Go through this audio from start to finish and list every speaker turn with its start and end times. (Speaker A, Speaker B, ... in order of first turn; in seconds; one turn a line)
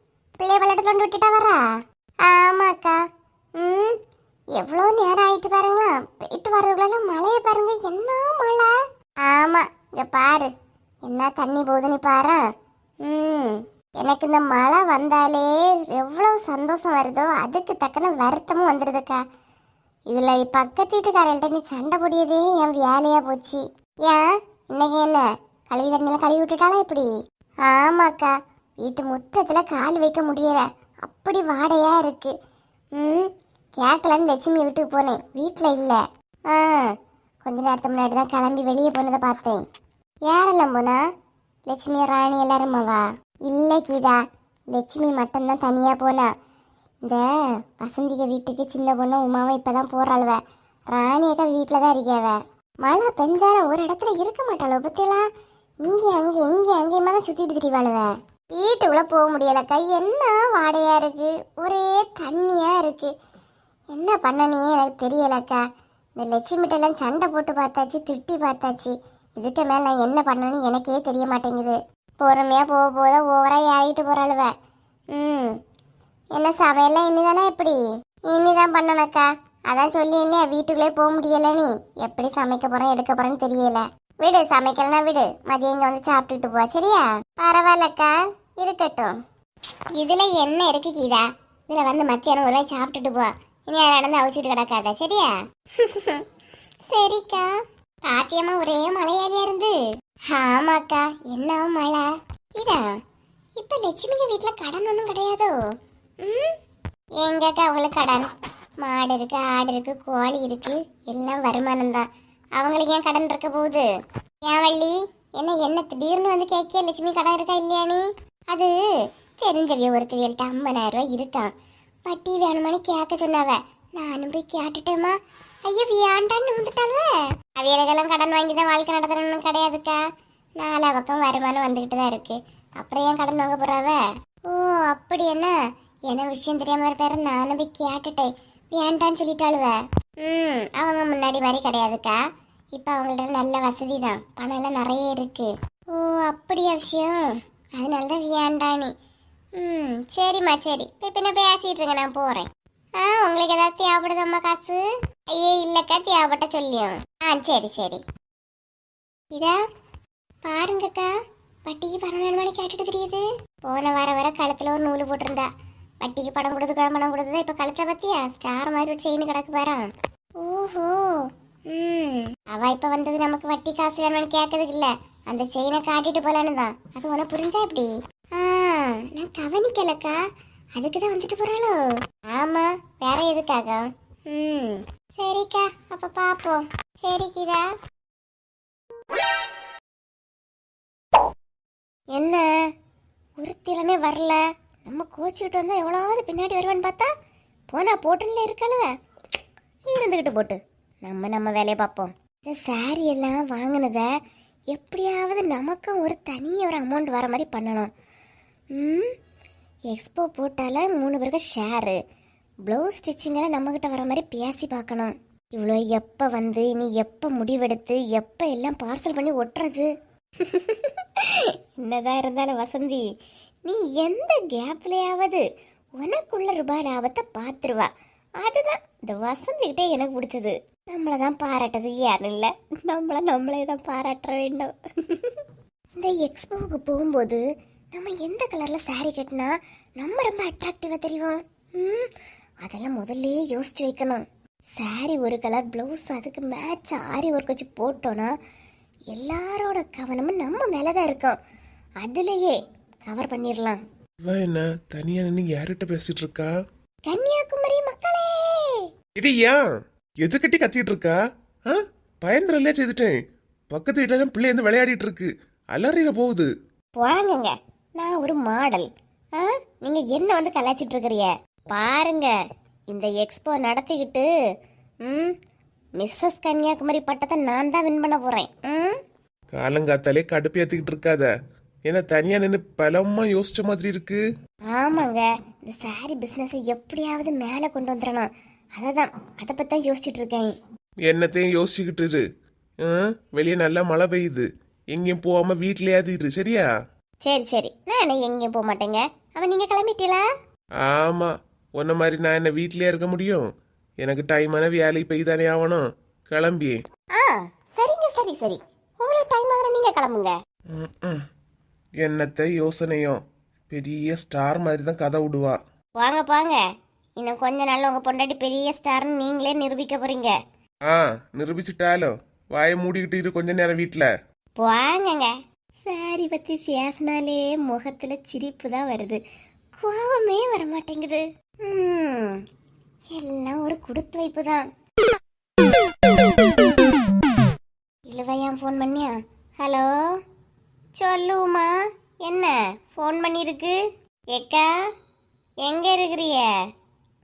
Speaker A: 0.4-1.6
Speaker A: 2.2-3.0
Speaker A: 3.6-4.0
Speaker A: 4.6-8.7
Speaker A: 9.2-10.5
Speaker A: 11.1-12.4
Speaker A: 13.0-19.2
Speaker A: 20.1-27.1
Speaker A: 27.6-32.3
Speaker A: 33.0-36.9
Speaker A: 37.4-39.6
Speaker A: 40.3-41.0
Speaker A: 41.7-44.2
Speaker A: 44.7-46.3
Speaker A: 47.8-55.3
Speaker A: 55.8-63.1
Speaker A: 63.9-65.6
Speaker A: 66.2-74.5
Speaker A: 75.1-75.5
Speaker A: 76.4-89.2
Speaker A: 90.0-96.2
Speaker A: 96.9-97.5
Speaker A: 98.0-99.8
Speaker A: 100.3-103.0
Speaker A: 103.6-105.5
Speaker A: 106.2-106.5
Speaker A: 107.2-108.3
Speaker A: 108.8-112.1
Speaker A: 112.6-113.9
Speaker A: 114.4-118.8
Speaker A: 119.4-121.5
Speaker A: 122.0-130.0
Speaker A: 130.6-135.5
Speaker A: 136.1-142.2
Speaker A: 142.8-147.2
Speaker A: 147.8-148.9
Speaker A: 149.6-154.8
Speaker A: 155.3-158.0
Speaker A: 160.4-161.1
Speaker A: 161.7-165.5
Speaker A: 166.0-169.9
Speaker A: 170.4-180.2
Speaker A: 180.8-187.6
Speaker A: 192.1-192.5
Speaker A: 193.4-197.1
Speaker A: 197.7-198.9
Speaker A: 199.9-204.1
Speaker A: 204.7-207.9
Speaker A: 208.8-209.1
Speaker A: 209.9-212.0
Speaker A: 212.7-219.9
Speaker A: 220.4-223.0
Speaker A: 223.7-225.4
Speaker A: 226.0-235.4
Speaker A: 236.0-242.1
Speaker A: 242.6-244.2
Speaker A: 244.8-248.3
Speaker A: 249.1-251.4
Speaker A: 252.0-253.8
Speaker B: 254.3-256.5
Speaker A: 257.1-258.9
Speaker B: 259.2-259.6
Speaker B: 260.2-263.2
Speaker B: 263.7-266.5
Speaker A: 267.0-272.3
Speaker A: 272.9-274.3
Speaker A: 275.1-275.3
Speaker A: 276.0-279.0
Speaker B: 279.5-281.3
Speaker B: 281.9-284.2
Speaker A: 284.7-290.5
Speaker B: 291.1-292.2
Speaker B: 292.8-296.7
Speaker A: 297.2-300.2
Speaker B: 300.8-303.4
Speaker B: 304.0-306.8
Speaker A: 307.1-310.3
Speaker B: 310.7-311.2
Speaker B: 312.0-315.6
Speaker A: 316.0-316.6
Speaker A: 317.2-320.3
Speaker B: 320.9-324.1
Speaker A: 324.6-325.3
Speaker A: 325.8-329.2
Speaker A: 329.8-332.4
Speaker A: 333.1-334.7
Speaker A: 338.1-339.9
Speaker A: 341.0-341.7
Speaker A: 342.2-343.8
Speaker A: 344.3-344.7
Speaker A: 345.6-346.5